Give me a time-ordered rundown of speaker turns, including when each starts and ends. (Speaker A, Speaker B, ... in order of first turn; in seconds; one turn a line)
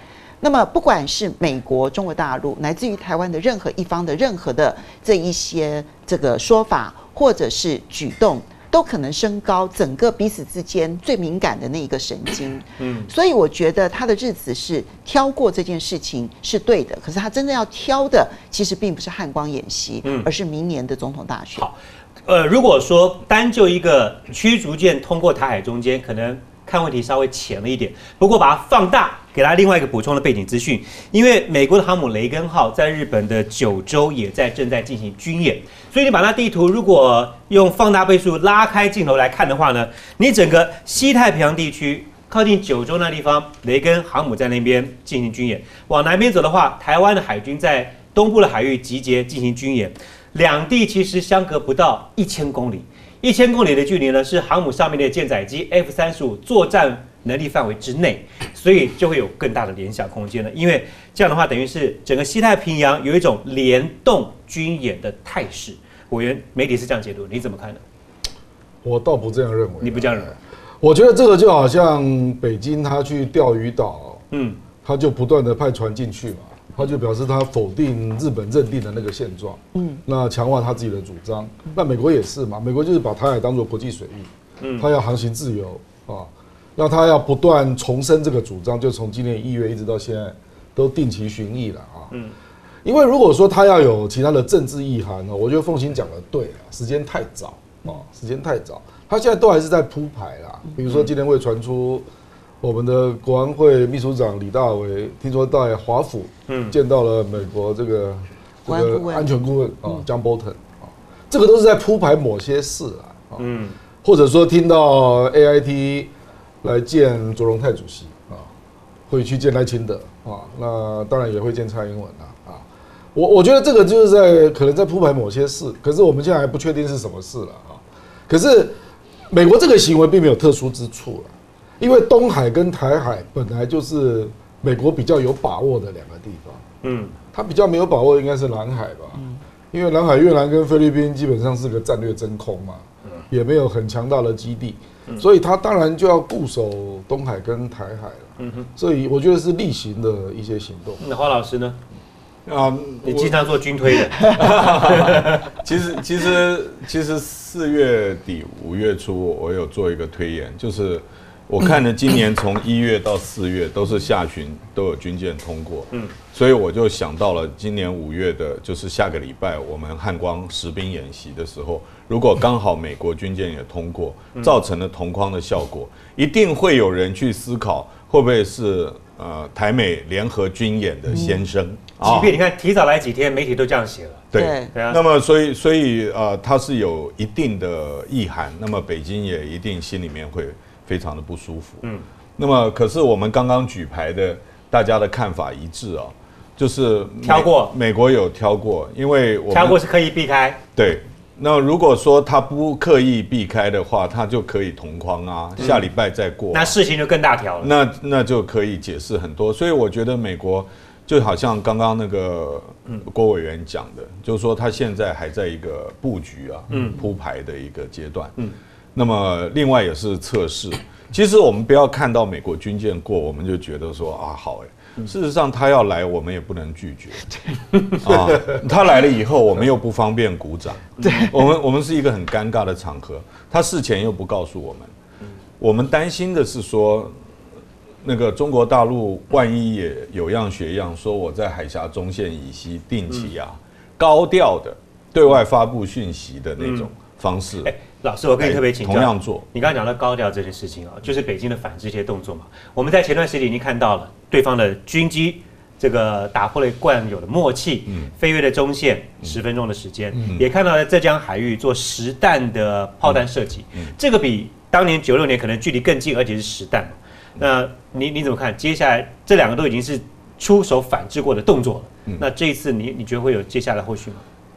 Speaker A: 0.4-21.7
Speaker B: 12.8-13.1
Speaker B: 20.0-20.3
Speaker B: 21.6-67.8
Speaker C: 68.8-74.2
Speaker B: 69.8-70.3
Speaker B: 74.3-74.6
Speaker C: 74.8-92.1
Speaker A: 79.8-80.0
Speaker B: 84.6-84.9
Speaker C: 92.8-102.1
Speaker C: 102.6-113.4
Speaker B: 106.5-106.8
Speaker A: 108.7-109.3
Speaker B: 113.4-113.8
Speaker C: 114.0-116.1
Speaker C: 116.6-118.5
Speaker C: 119.1-128.8
Speaker C: 129.3-136.6
Speaker B: 136.8-137.2
Speaker C: 137.3-151.0
Speaker B: 148.4-148.7
Speaker B: 151.0-151.8
Speaker D: 152.5-153.4
Speaker B: 153.0-155.4
Speaker D: 154.2-182.3
Speaker A: 181.1-181.4
Speaker B: 182.0-185.0
Speaker D: 184.3-191.8
Speaker A: 184.3-184.7
Speaker D: 192.4-199.8
Speaker B: 197.2-197.7
Speaker B: 199.5-200.6
Speaker D: 200.8-206.8
Speaker B: 205.6-205.8
Speaker B: 206.5-207.7
Speaker D: 207.6-218.3
Speaker B: 216.7-217.0
Speaker D: 218.9-227.3
Speaker D: 227.9-234.9
Speaker B: 231.0-231.3
Speaker A: 231.0-231.5
Speaker D: 235.6-237.1
Speaker D: 238.0-247.7
Speaker B: 246.6-246.9
Speaker B: 247.6-274.2
Speaker D: 248.4-249.5
Speaker D: 260.2-260.4